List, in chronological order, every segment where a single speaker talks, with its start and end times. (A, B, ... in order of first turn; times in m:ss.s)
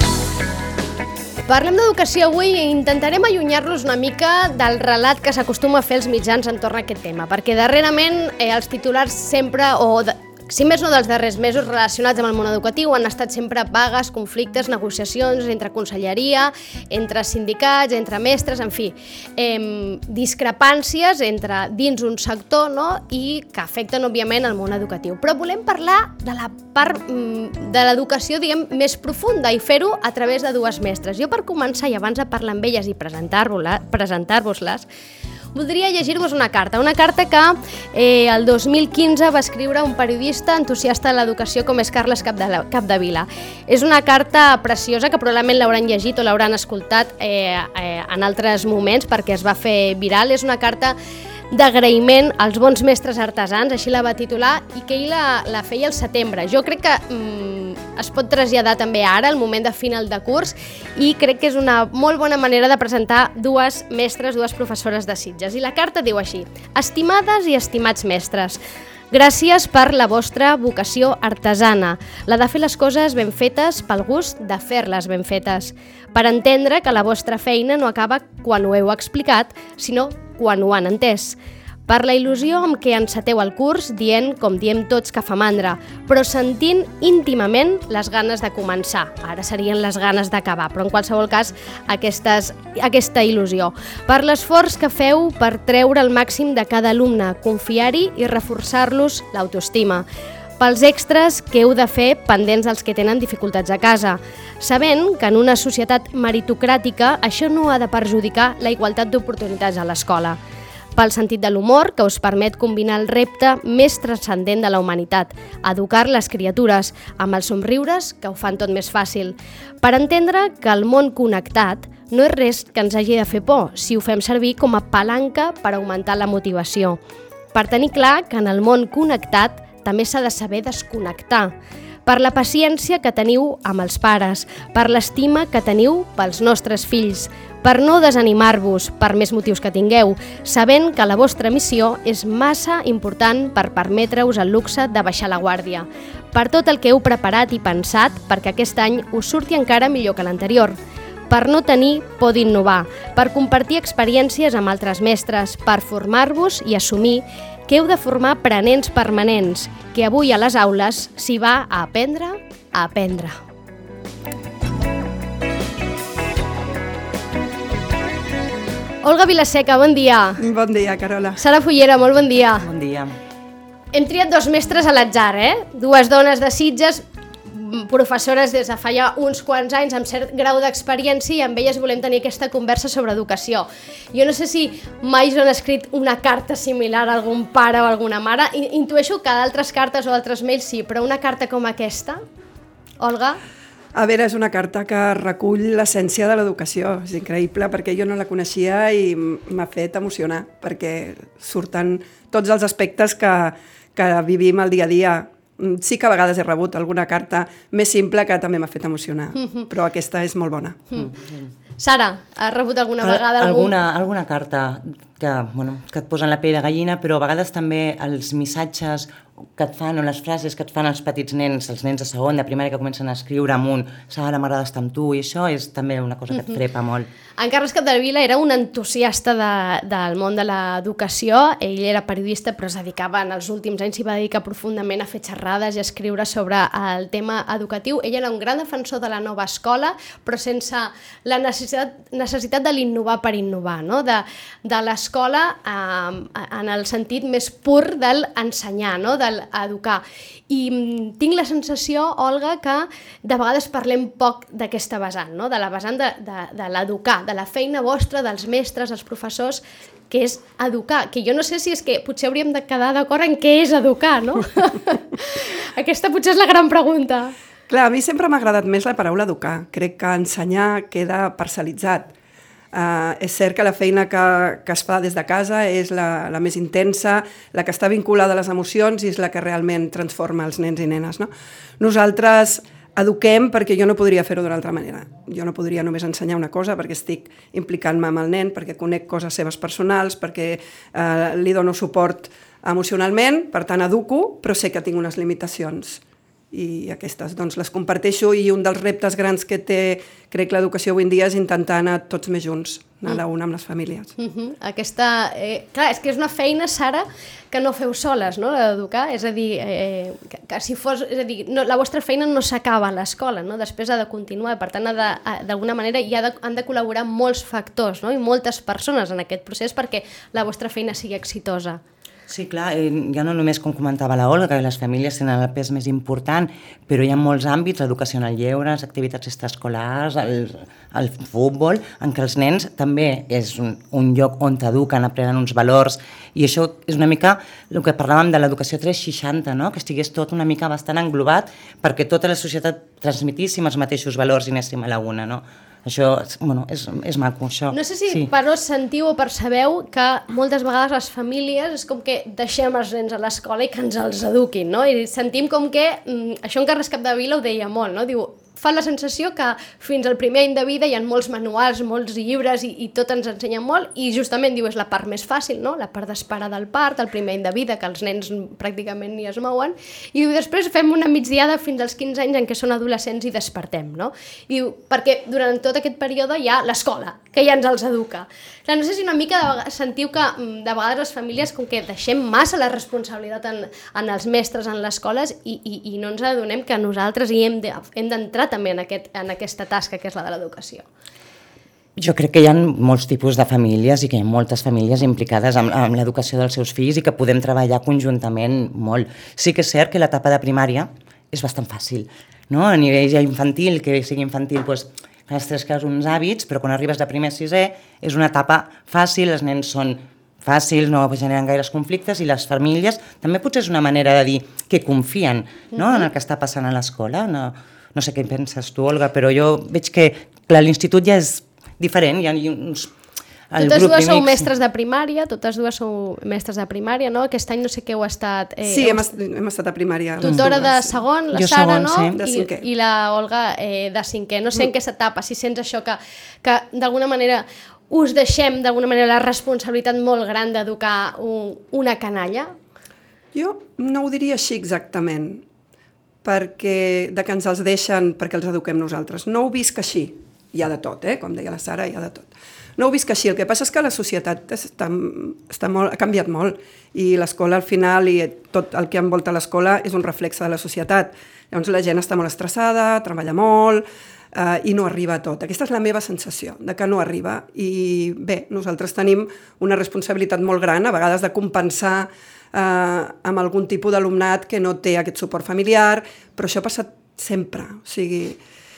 0:01.5-0:34.8 A
0:35.5-0:51.0 A
0:51.5-1:08.6 A
1:09.1-1:40.0 A
1:40.6-1:50.4 A
1:51.0-2:07.0 A
2:07.5-2:11.5 A
2:12.0-2:30.8 A
2:31.3-2:43.4 A
2:49.0-2:50.4 A
2:50.4-2:51.4 B
2:51.4-2:52.7 A
2:52.6-2:53.1 C
2:53.9-3:12.2 A
3:13.0-3:13.4 A
3:13.9-3:30.8 B
3:29.4-3:29.7 A
3:31.0-3:31.4 C
3:31.8-3:33.7 A
3:33.0-3:47.1 C
3:47.4-4:27.3 A
4:27.7-4:32.1 B
4:32.7-4:56.0 B
4:56.5-5:04.1 B
5:04.2-5:21.8 A
5:22.3-5:48.3 C
5:47.7-6:30.8 A
6:32.0-7:02.9 C
7:03.5-7:04.5 C
7:03.6-7:09.1 A
7:08.6-7:11.0 B
7:10.2-7:10.5 C
7:10.3-7:22.5 A
7:11.3-7:12.2 C
7:12.2-7:12.6 B
7:23.3-7:25.4 B
7:26.2-7:58.4 B